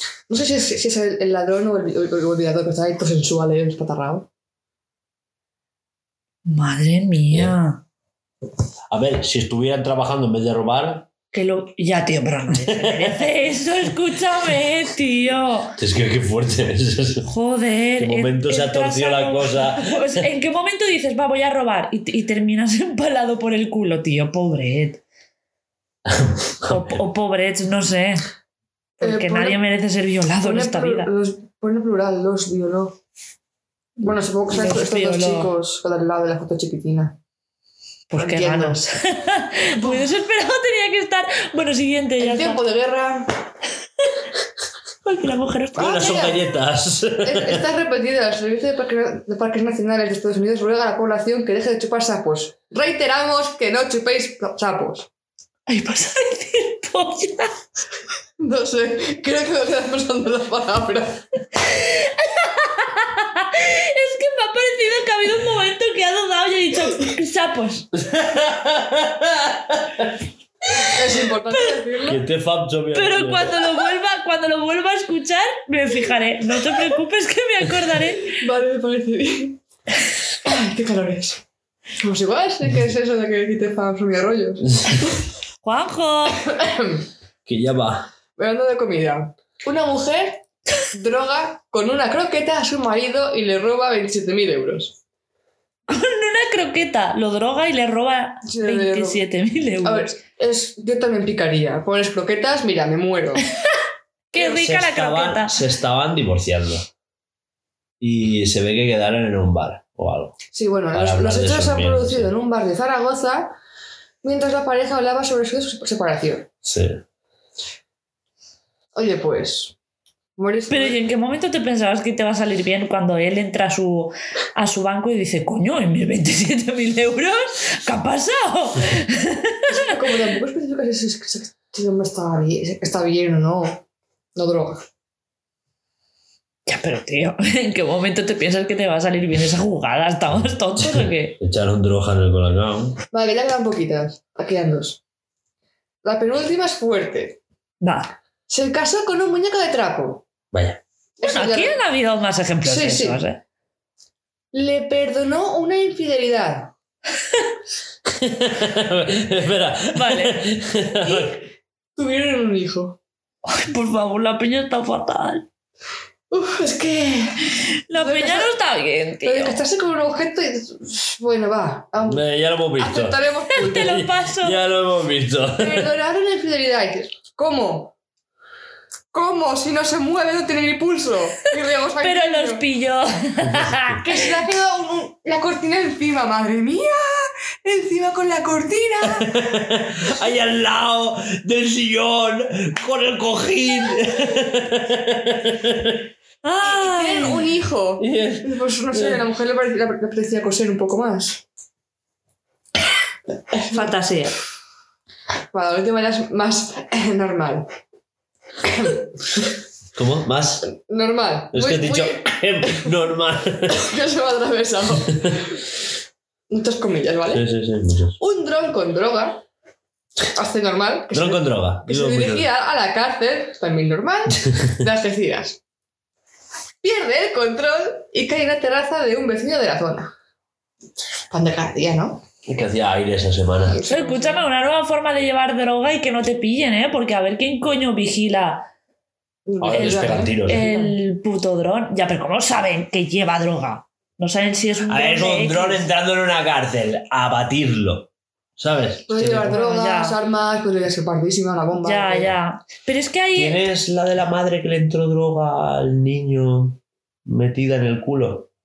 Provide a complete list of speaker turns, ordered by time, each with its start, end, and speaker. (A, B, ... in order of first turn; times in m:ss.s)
0:00.3-0:04.3 A
0:06.5-0:07.8 B
0:08.9-0:11.1 C
0:11.3-0:15.8 B
0:12.7-0:13.3 C
0:15.8-0:17.3 C
0:17.3-0:25.0 B
0:18.0-0:20.2 C
0:26.1-0:27.0 C
0:26.7-0:28.2 B
0:29.0-0:31.1 B
0:29.0-0:29.6 A
0:30.4-0:33.0 A
0:34.0-0:37.2 A
0:34.5-0:35.5 B
0:38.1-0:42.6 B
0:38.2-0:38.8 A
0:39.8-0:40.1 A
0:42.2-0:43.3 A
0:45.0-0:46.4 B
0:45.8-0:47.7 C
0:45.8-0:46.4 A
0:47.2-0:55.1 A
0:55.7-0:57.6 B
0:58.4-1:01.2 A
1:01.6-1:07.9 B
1:07.9-1:10.2 C
1:10.8-1:12.2 A
1:11.5-1:11.8 B
1:12.0-1:13.6 C
1:12.9-1:18.4 B
1:18.4-1:19.6 A
1:20.4-1:21.4 A
1:22.0-1:25.2 A
1:25.6-1:26.4 B
1:26.4-1:27.1 A
1:27.5-1:28.1 C
1:28.4-1:35.0 A
1:35.9-1:40.1 B
1:38.5-1:39.2 A
1:39.8-1:43.5 A
1:44.3-1:45.5 B
1:44.3-1:46.9 C
1:48.0-1:50.4 C
1:50.5-1:53.6 A
1:50.9-1:52.3 C
1:54.2-1:56.5 A
1:56.6-1:57.0 C
1:58.9-1:59.8 A
2:00.4-2:01.0 A
2:00.7-2:09.8 B
2:09.7-2:13.8 A
2:14.4-2:14.9 A
2:16.7-2:21.4 B
2:20.4-2:23.0 C
2:23.1-2:25.0 A
2:26.0-2:27.4 A
2:27.8-2:28.1 B
2:28.5-2:30.2 A
2:30.5-2:30.8 C
2:31.2-2:31.8 A
2:31.2-2:33.4 B
2:32.6-2:33.2 A
2:34.5-2:36.7 A
2:38.1-2:41.4 C
2:39.9-2:40.4 B
2:41.1-2:41.4 A
2:42.0-2:43.0 A
2:43.5-2:45.5 B
2:46.3-2:48.5 A
2:47.9-2:49.6 B
2:49.2-2:52.2 A
2:52.1-2:53.2 C
2:52.8-2:54.0 A
2:53.5-2:54.6 B
2:53.8-2:56.0 C
2:55.6-2:57.9 A
2:59.1-3:02.7 A
3:02.0-3:04.0 B
3:03.4-3:04.0 C
3:04.0-3:09.5 A
3:09.1-3:16.1 C
3:16.4-3:17.4 B
3:16.7-3:21.4 A
3:18.0-3:19.2 C
3:23.7-3:24.4 B
3:25.5-3:27.7 A
3:28.6-3:29.5 A
3:30.0-3:30.7 C
3:30.7-3:32.3 A
3:31.5-3:33.9 C
3:33.7-3:35.6 A
3:36.5-3:37.5 A
3:37.3-3:38.2 C
3:38.2-3:39.4 A
3:40.2-3:45.6 A
3:41.1-3:42.5 C
3:46.8-3:50.1 A
3:51.3-3:52.2 A
3:52.4-3:53.8 C
3:53.7-3:54.5 A
3:53.9-3:58.7 B
3:59.5-4:01.0 A
3:59.6-4:00.7 C
3:59.7-4:05.8 B
4:04.8-4:09.6 C
4:09.1-4:12.3 A
4:09.4-4:10.2 B
4:11.8-4:13.6 B
4:13.4-4:18.5 C